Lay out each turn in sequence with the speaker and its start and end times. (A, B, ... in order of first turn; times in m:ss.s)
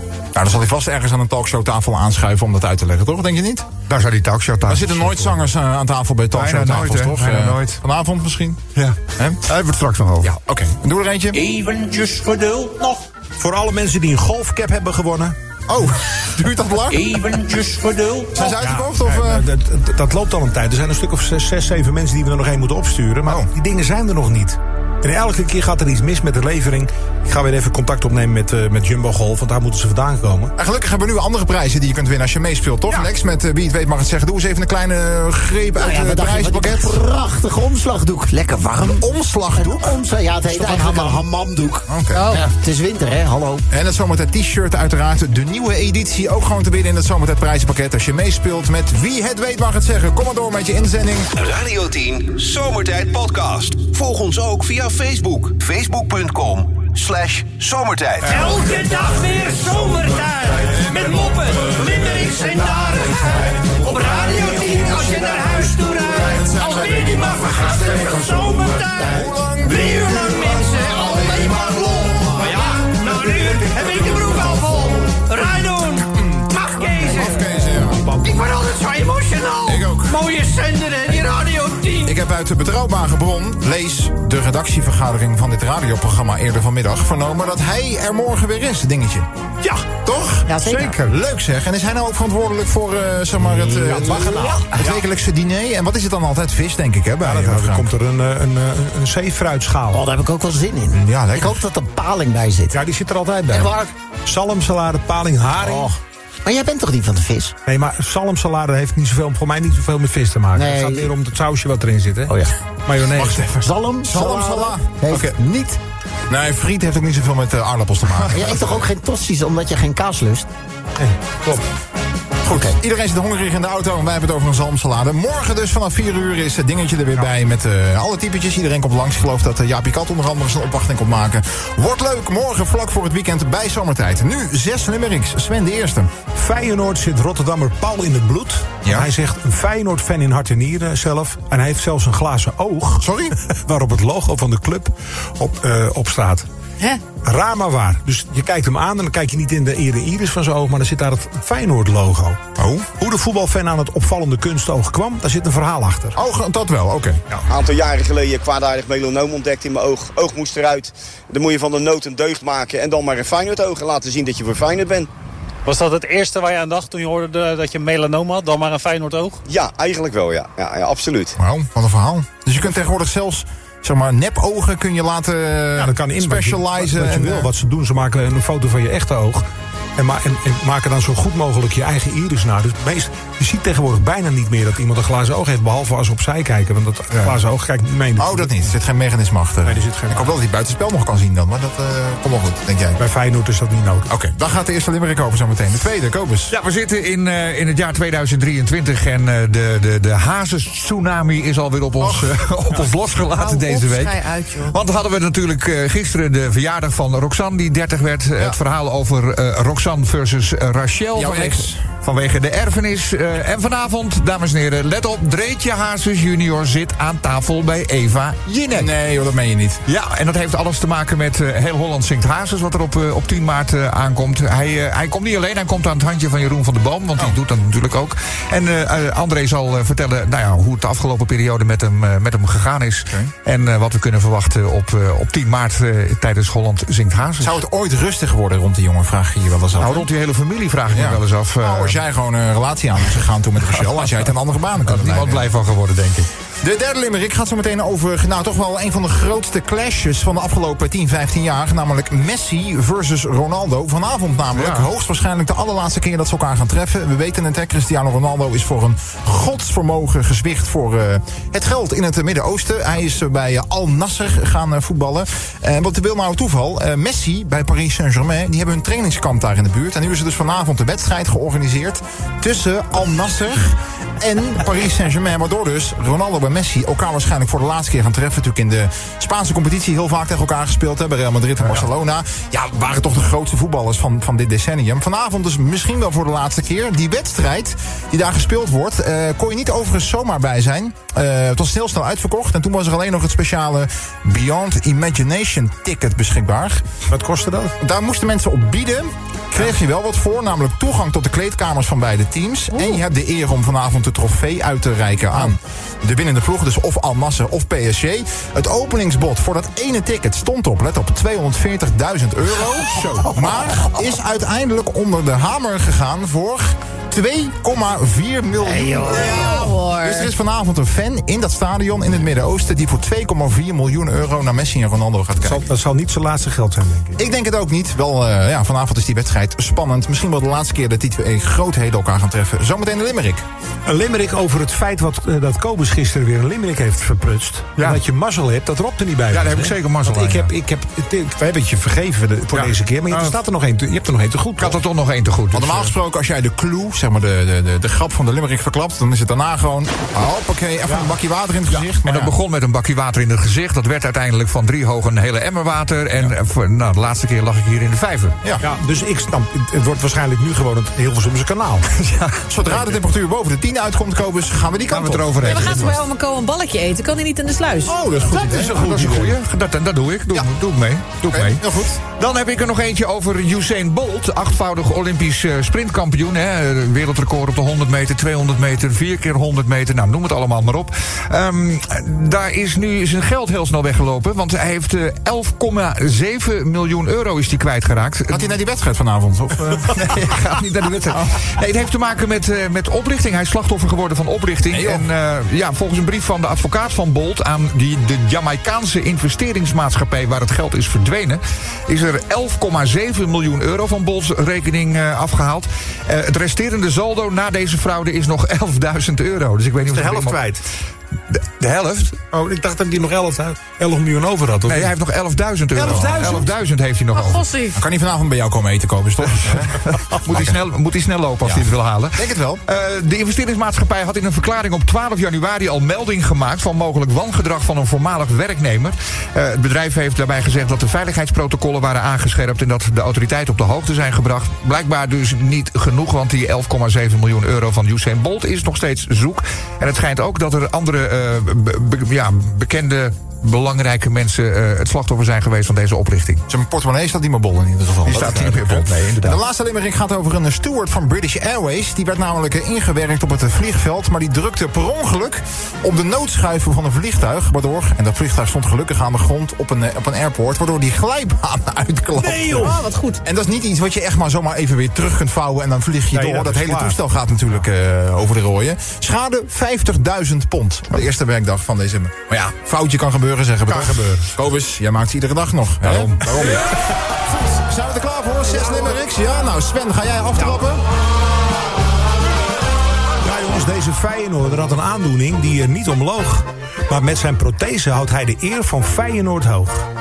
0:00.3-0:03.7 A
0:03.9-0:05.5 B
0:04.7-0:09.4 A
0:06.3-0:07.8 B
0:08.7-0:10.3 B
0:10.2-0:11.5 A
0:13.4-0:15.3 C
0:15.7-0:17.7 A
0:18.3-0:19.4 A
0:18.4-0:30.5 C
0:30.6-0:37.0 A
0:35.8-0:43.6 D
0:38.8-0:40.0 A
0:40.5-0:41.2 C
0:41.9-0:42.3 A
0:42.1-0:42.4 E
0:43.7-0:51.3 A
0:51.3-0:58.4 F
0:58.2-1:17.6 G
0:58.3-0:58.5 A
1:00.8-1:01.2 A
1:04.1-1:05.1 D
1:06.2-1:08.4 A
1:09.0-1:12.7 A
1:13.9-1:14.6 A
1:17.0-1:18.1 A
1:17.8-1:18.4 C
1:18.1-1:22.2 G
1:19.6-1:20.2 A
1:22.0-1:29.3 A
1:29.6-1:29.9 C
1:30.0-1:37.9 A
1:30.5-1:30.9 E
1:30.6-1:31.1 C
1:33.5-1:33.9 C
1:33.9-1:34.8 D
1:34.8-1:35.0 C
1:37.2-1:40.0 C
1:39.9-1:42.8 D
1:40.9-1:41.6 A
1:42.7-1:45.9 C
1:43.5-1:43.9 D
1:45.6-1:47.5 D
1:47.6-1:53.7 C
1:50.5-1:51.1 D
1:52.3-1:52.5 D
1:53.6-1:55.8 D
1:54.0-1:55.4 A
1:56.3-1:58.8 A
1:58.2-2:00.5 D
2:01.0-2:01.6 C
2:02.4-2:16.1 A
2:02.4-2:02.7 D
2:16.3-2:26.4 C
2:18.8-2:19.1 A
2:23.0-2:23.4 A
2:27.1-2:36.2 C
2:32.6-2:32.9 A
2:36.1-2:37.2 A
2:37.5-2:45.1 H
2:45.6-2:49.4 I
2:49.4-2:51.4 H
2:51.4-2:57.5 A
2:55.8-2:59.4 C
3:00.0-3:08.7 C
3:07.1-3:07.4 A
3:08.2-3:13.0 A
3:09.6-3:10.3 C
3:13.0-3:14.1 C
3:14.1-3:16.5 A
3:16.5-3:38.9 B
3:22.0-3:22.4 A
3:23.2-3:24.8 E
3:31.1-3:31.8 A
3:38.7-3:39.8 A
3:39.8-3:57.6 B
3:57.4-4:00.1 A
3:59.8-4:02.0 B
4:00.9-4:05.5 A
4:04.8-4:06.3 B
4:06.6-4:56.9 A
4:14.5-4:14.9 B
4:57.1-4:57.7 C
4:57.8-5:25.6 A
5:18.7-5:19.4 D
5:19.0-5:20.3 E
5:25.4-5:27.2 C
5:27.2-5:33.4 A
5:33.9-5:44.8 C
5:37.8-5:38.0 B
5:39.3-5:40.5 B
5:42.5-5:43.3 B
5:44.6-5:45.9 B
5:45.5-5:52.4 A
5:50.8-5:51.1 C
5:52.0-5:58.4 B
5:58.6-6:01.8 C
6:01.9-6:02.4 B
6:02.5-6:05.4 A
6:04.9-6:06.0 B
6:05.4-6:08.0 E
6:07.8-6:08.8 A
6:08.3-6:09.4 C
6:08.5-6:28.5 B
6:11.2-6:12.0 A
6:28.3-6:29.9 A
6:29.9-6:50.4 B
6:34.7-6:35.1 A
6:49.9-6:50.6 C
6:51.3-6:52.2 B
6:52.2-6:54.9 C
6:54.7-6:57.4 B
6:55.7-6:56.5 C
6:57.1-6:57.8 E
6:57.7-7:00.6 A
6:59.8-7:26.4 B
7:01.4-7:02.6 A
7:26.5-8:00.8 A
7:28.0-7:29.4 B
7:42.2-7:42.8 C
7:42.6-7:43.2 E
7:46.1-7:47.0 C
7:53.7-7:54.3 C
7:55.8-7:56.5 B
8:03.2-8:09.8 C